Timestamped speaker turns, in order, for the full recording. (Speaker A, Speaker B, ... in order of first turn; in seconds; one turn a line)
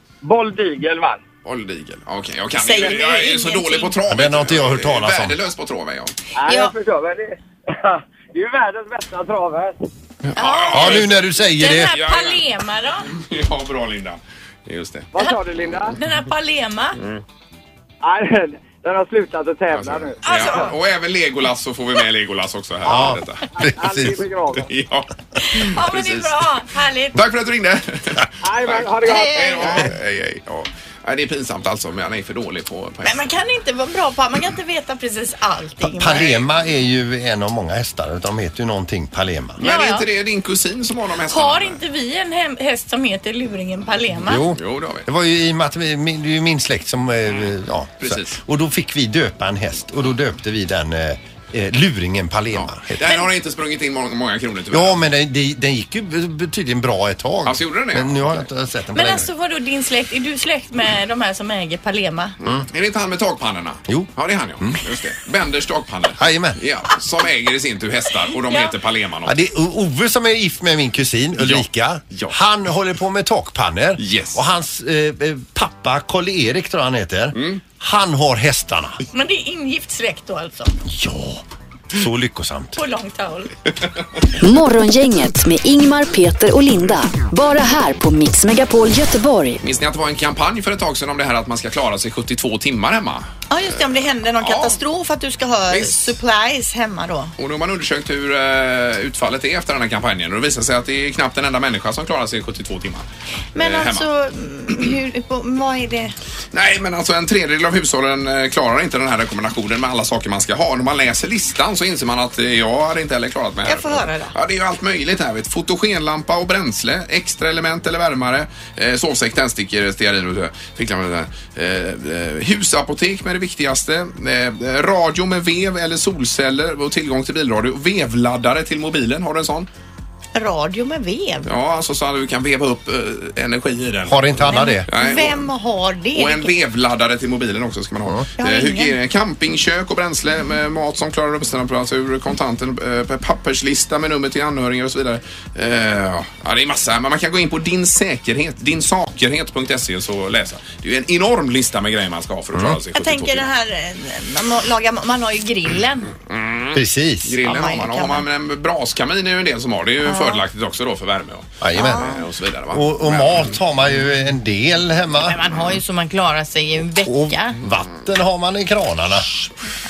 Speaker A: 0.2-1.2
Speaker B: 1.4-6.1
Speaker C: 2.6-4.0
Speaker D: 4.1-5.4
Speaker A: 6.3-9.8
Speaker C: 6.4-6.7
Speaker B: 10.2-12.4
Speaker C: 10.3-13.1
Speaker D: 10.7-11.9
Speaker B: 13.1-15.1
Speaker A: 15.1-16.0
Speaker C: 15.9-17.0
Speaker A: 18.0-20.7
Speaker B: 19.7-23.4
Speaker C: 20.2-20.7
Speaker D: 22.9-24.2
Speaker A: 23.6-24.7
Speaker B: 24.6-26.5
Speaker C: 25.4-27.2
Speaker B: 27.1-33.3
Speaker A: 28.4-29.9
Speaker C: 29.1-29.8
Speaker C: 33.0-36.4
Speaker D: 36.0-39.6
Speaker B: 36.1-36.4
Speaker C: 39.6-40.0
Speaker B: 39.6-41.8
Speaker C: 41.3-44.4
Speaker D: 44.2-53.1
Speaker B: 44.5-45.0
Speaker B: 48.0-48.4
Speaker B: 52.5-55.0
Speaker D: 54.7-59.3
Speaker B: 57.4-58.5
Speaker C: 58.9-62.4
Speaker B: 62.4-69.4
Speaker D: 66.2-66.6
Speaker C: 68.5-68.7
Speaker D: 69.2-79.0
Speaker B: 71.4-72.3
Speaker B: 74.0-74.4
Speaker B: 77.3-77.6
Speaker C: 79.1-80.7
Speaker D: 80.8-82.8
Speaker C: 82.8-83.5
Speaker E: 84.4-89.6
Speaker B: 89.6-93.3
Speaker C: 93.5-97.3
Speaker B: 94.4-94.8
Speaker B: 95.7-96.2
Speaker B: 97.4-104.1
Speaker C: 103.5-106.1
Speaker B: 106.5-129.7
Speaker C: 113.6-114.3
Speaker C: 130.3-131.4
Speaker B: 131.4-135.5
Speaker D: 134.1-134.9
Speaker C: 134.5-136.5
Speaker B: 136.1-153.5
Speaker C: 138.4-138.9
Speaker D: 152.5-152.8
Speaker C: 152.9-156.1
Speaker B: 156.3-163.6
Speaker D: 156.7-157.4
Speaker C: 157.4-158.2
Speaker C: 160.0-160.4
Speaker D: 161.6-162.1
Speaker C: 161.7-162.2
Speaker D: 162.7-165.4
Speaker C: 165.2-167.6
Speaker D: 167.0-169.3